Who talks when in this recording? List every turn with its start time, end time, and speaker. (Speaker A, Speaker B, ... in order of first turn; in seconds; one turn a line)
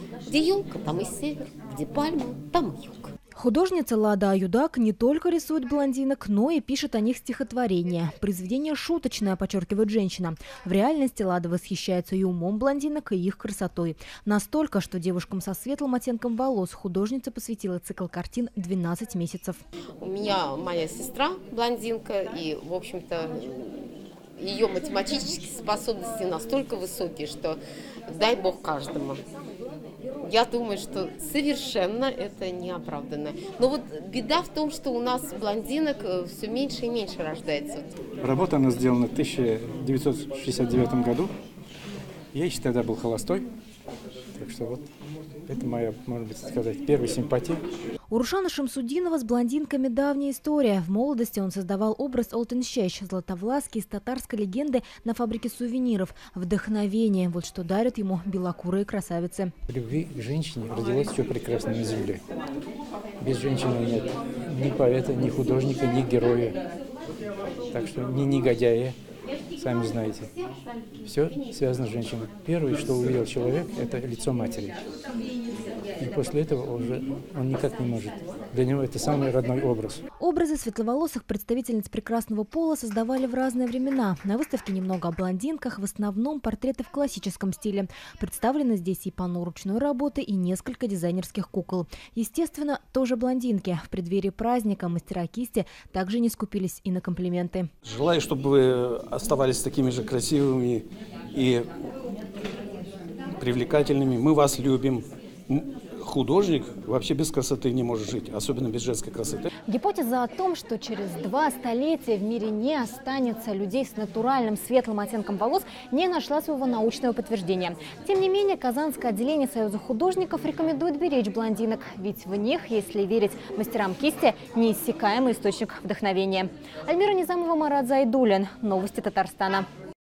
Speaker A: 0.2-3.1
Speaker B: 3.4-19.6
Speaker A: 20.0-29.2
Speaker A: 30.2-37.9
Speaker C: 38.2-41.3
Speaker C: 42.3-43.5
Speaker C: 44.4-44.9
Speaker C: 45.5-47.6
Speaker B: 48.1-59.5
Speaker C: 59.7-62.2
Speaker C: 63.2-66.6
Speaker C: 67.7-69.0
Speaker C: 69.6-70.3
Speaker C: 71.0-74.8
Speaker C: 76.0-80.0
Speaker B: 80.2-97.7
Speaker D: 97.8-101.7
Speaker D: 103.4-109.5
Speaker B: 109.7-129.7